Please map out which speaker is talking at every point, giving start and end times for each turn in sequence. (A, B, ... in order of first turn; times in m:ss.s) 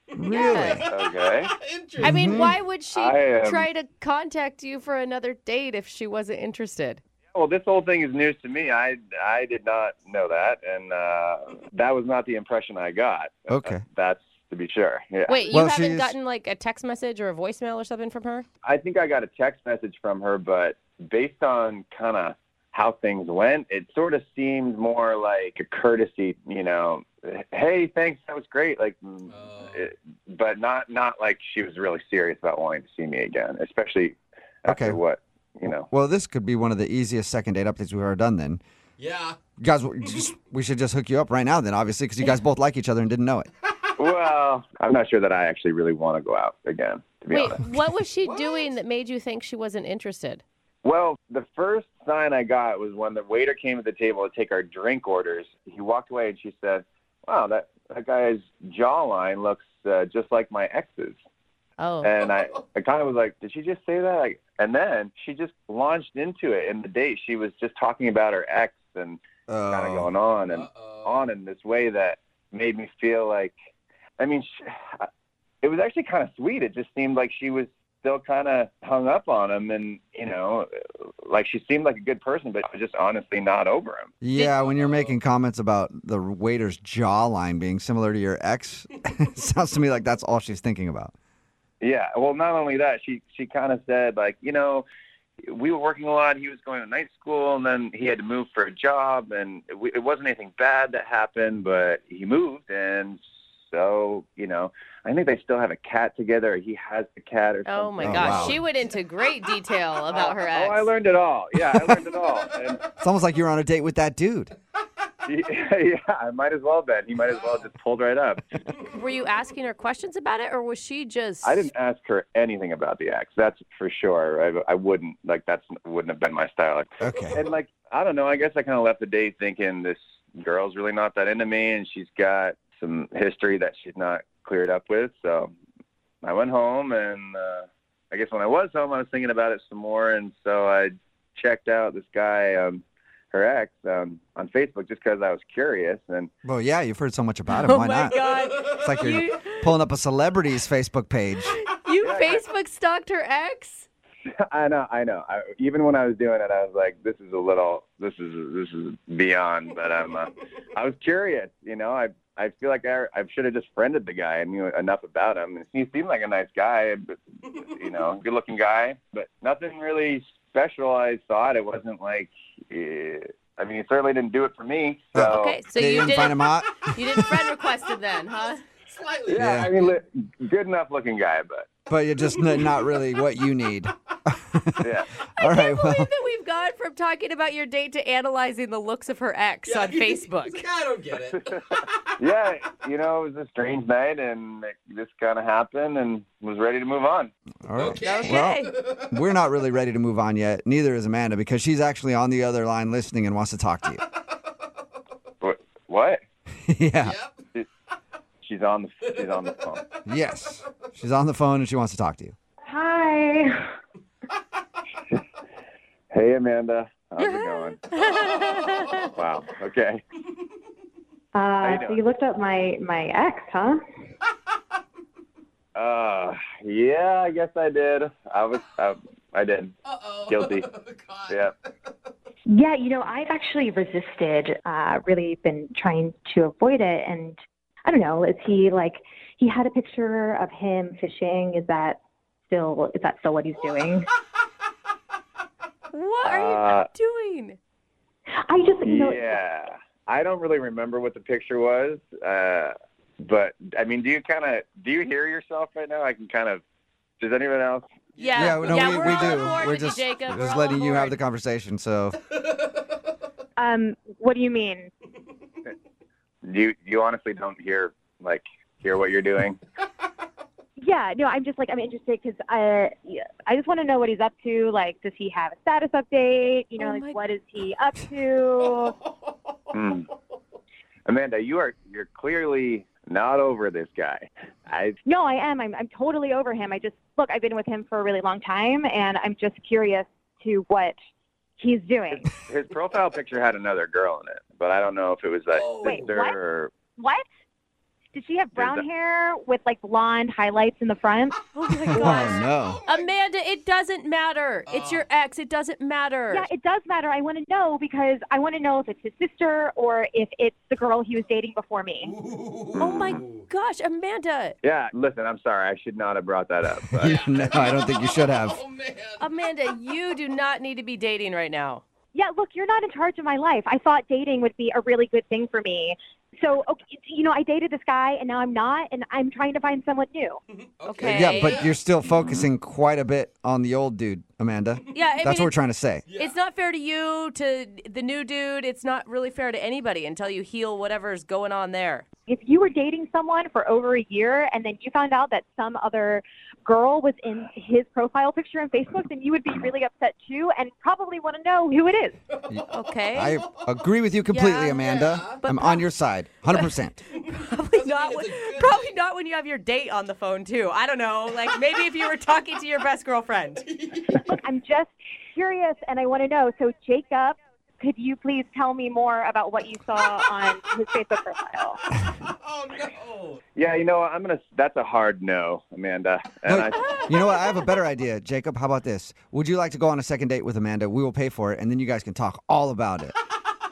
0:00.1-0:02.4 A
0:00.2-0:00.9 B
0:00.3-0:00.8 C
0:00.8-0:01.5 D
0:02.0-0:07.0 C
0:02.0-0:02.6 B
0:02.9-0:03.7 D
0:07.3-0:15.6 D
0:13.5-0:13.8 B
0:15.3-0:18.5 C
0:15.5-0:16.2 B
0:18.6-0:35.9 D
0:29.3-0:29.8 A
0:34.7-0:35.0 B
0:35.9-0:38.6 B
0:39.0-0:39.4 A
0:39.6-0:43.5 B
0:44.0-0:47.7 D
0:47.3-0:50.4 C
0:48.2-0:48.8 A
0:50.8-1:01.2 D
1:01.8-1:02.1 C
1:02.0-1:13.6 D
1:09.5-1:10.1 B
1:10.5-1:11.3 A
1:14.2-1:15.1 D
1:15.6-1:20.7 D
1:21.2-1:24.1 D
1:24.2-1:31.1 B
1:24.4-1:25.2 A
1:31.8-1:34.8 D
1:35.5-1:48.6 D
1:47.7-1:50.9 C
1:48.0-1:48.6 B
1:50.1-1:52.8 D
1:51.6-1:52.0 B
1:53.0-1:54.5 B
1:55.3-1:58.6 D
1:57.3-1:57.6 A
1:58.9-2:01.7 C
2:01.4-2:15.6 D
2:07.0-2:07.4 B
2:16.2-2:26.3 D
2:26.4-2:31.6 B
2:27.5-2:29.7 C
2:28.5-2:28.8 A
2:31.5-2:33.9 C
2:32.0-2:32.5 D
2:34.4-2:55.6 D
2:55.1-2:57.4 B
2:55.3-2:58.6 C
2:58.7-2:59.5 A
2:59.3-3:01.7 D
2:59.4-2:59.8 B
3:01.9-3:06.1 B
3:02.5-3:02.8 A
3:04.8-3:05.1 D
3:05.4-3:10.6 C
3:09.7-3:12.1 A
3:12.2-3:17.3 D
3:17.7-3:24.0 B
3:17.8-3:19.1 A
3:18.0-3:18.8 C
3:25.4-3:26.2 D
3:26.7-3:27.2 B
3:27.0-3:27.4 A
3:28.4-3:29.8 D
3:29.0-3:30.0 A
3:30.1-3:32.4 B
3:32.7-3:33.7 E
3:36.1-3:37.8 D
3:37.2-3:39.1 C
3:38.1-3:38.9 A
3:39.2-3:40.0 D
3:41.3-3:43.8 E
3:41.6-3:42.0 D
3:45.8-3:49.7 D
3:49.8-3:51.9 A
3:50.3-3:50.7 D
3:52.5-4:04.1 E
4:05.9-4:07.6 C
4:06.2-4:06.9 D
4:08.4-4:09.4 E
4:08.8-4:16.6 D
4:17.2-4:17.9 D
4:18.2-4:19.6 A
4:18.2-4:21.2 C
4:18.4-4:22.2 B
4:22.4-4:22.8 A
4:23.6-4:24.9 E
4:26.4-4:29.6 D
4:30.8-4:39.0 E
4:36.8-4:37.2 C
4:38.6-4:39.1 A
4:39.7-4:40.1 D
4:41.1-4:45.0 D
4:45.0-4:51.0 E
4:51.6-4:52.3 E
4:52.1-4:56.7 D
4:55.5-4:56.2 A
4:55.8-4:56.4 E
4:57.0-4:57.2 E
4:58.1-5:01.4 E
4:58.6-4:58.9 D
5:01.5-5:06.5 C
5:01.9-5:03.1 A
5:01.9-5:02.8 B
5:04.7-5:05.1 A
5:06.3-5:12.1 E
5:12.0-5:13.4 A
5:12.8-5:13.2 D
5:12.8-5:14.6 C
5:14.6-5:17.7 D
5:17.0-5:18.6 B
5:17.0-5:19.3 A
5:19.2-5:21.8 C
5:22.1-5:30.4 E
5:30.5-5:31.8 A
5:30.8-5:31.7 C
5:31.0-5:36.1 B
5:34.9-5:35.5 C
5:36.1-5:36.4 A
5:36.2-5:42.0 C
5:42.3-5:52.2 E
5:52.5-5:57.0 B
5:52.7-5:53.4 C
5:53.2-5:53.7 A
5:54.3-5:54.9 C
5:54.8-5:55.4 A
5:55.4-5:55.9 C
5:56.5-6:03.6 C
5:57.7-5:59.0 A
6:03.6-6:04.4 A
6:04.3-6:11.8 E
6:12.2-6:13.4 A
6:13.6-6:17.2 D
6:16.5-6:23.2 B
6:16.7-6:17.8 C